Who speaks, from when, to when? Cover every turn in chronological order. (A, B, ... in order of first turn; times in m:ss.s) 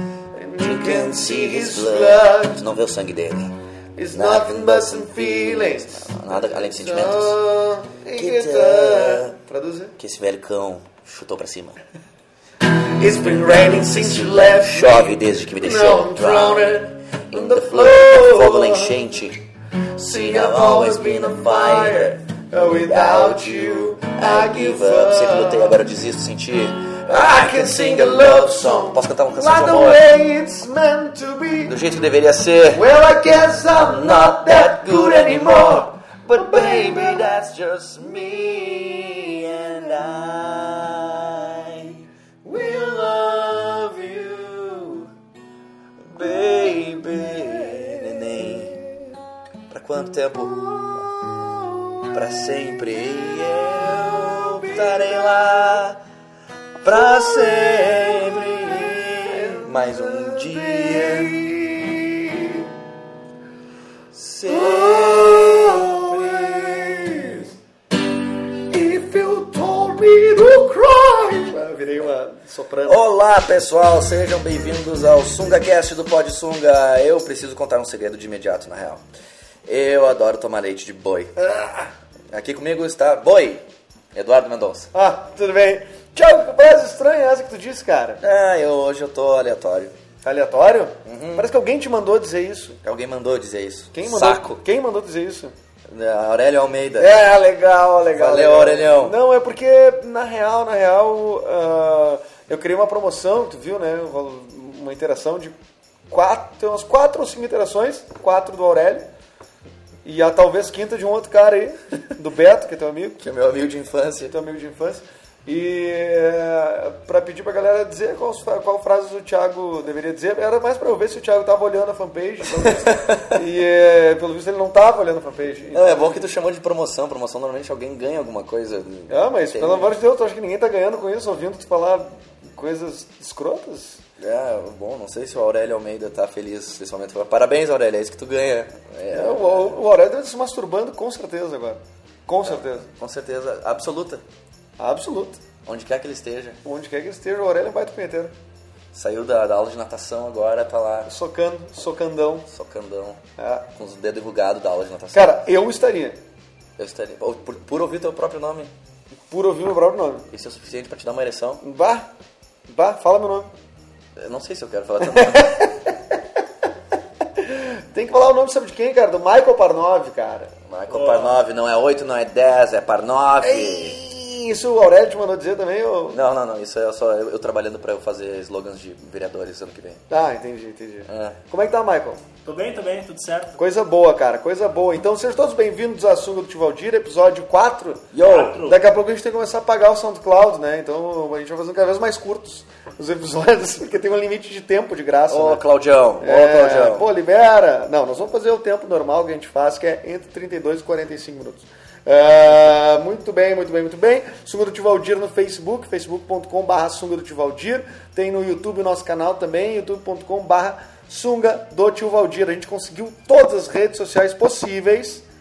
0:00.4-0:02.8 A
0:00.6-0:03.6 B
0:04.0-0:10.0 A
0:04.1-0:07.4 B
0:08.2-0:09.4 B
0:10.0-0:11.8 B
0:12.6-0:19.1 A
0:13.6-0:19.4 B
0:20.0-0:25.8 A
0:20.0-0:30.0 B
0:27.1-0:31.8 A
0:31.7-0:32.9 B
0:32.7-0:37.3 A
0:33.7-0:42.0 B
0:38.1-0:39.7 A
0:42.4-0:45.1 A
0:46.1-0:48.8 B
0:46.2-0:49.0 A
0:49.7-0:50.6 B
0:50.6-0:52.1 A
0:52.1-0:56.0 B
0:54.0-0:55.8 A
0:56.8-1:01.4 B
0:56.8-1:02.7 A
1:04.1-1:06.6 B
1:04.4-1:07.5 A
1:08.7-1:13.0 A
1:12.8-1:19.0 B
1:19.7-1:21.4 B
1:21.4-1:21.9 A
1:22.3-1:24.9 B
1:24.9-1:28.2 A
1:28.2-1:29.9 B
1:30.2-1:32.8 A
1:31.0-1:31.5 B
1:32.8-1:34.6 B
1:34.0-1:35.6 A
1:35.9-1:37.2 B
1:37.0-1:45.6 A
1:38.2-1:39.2 B
1:46.1-1:49.1 A
1:50.0-1:53.2 A
1:53.2-1:54.4 B
1:54.3-2:06.3 A
2:02.6-2:03.4 B
2:05.7-2:09.9 B
2:09.1-2:14.0 A
2:14.2-2:19.8 B
2:19.1-2:22.9 A
2:22.5-2:24.2 B
2:24.8-2:25.4 A
2:25.6-2:26.6 B
2:26.6-2:28.3 A
2:28.9-2:31.1 B
2:31.1-2:32.5 A
2:32.5-2:33.2 B
2:33.4-2:33.7 A
2:33.8-2:35.4 B
2:35.1-2:36.2 A
2:36.8-2:38.7 B
2:39.3-2:40.3 A
2:40.3-2:41.6 B
2:41.6-2:42.1 A
2:42.7-2:43.5 A
2:44.2-2:45.7 B
2:45.0-2:46.2 A
2:47.2-2:50.5 A
2:50.7-2:54.0 B
2:50.9-2:51.4 C
2:53.4-2:56.2 A
2:56.1-3:00.0 B
3:00.1-3:02.2 A
3:01.1-3:01.4 B
3:02.4-3:03.6 C
3:03.6-3:15.6 A
3:08.1-3:08.6 B
3:08.2-3:08.8 C
3:15.3-3:17.1 B
3:16.2-3:35.2 A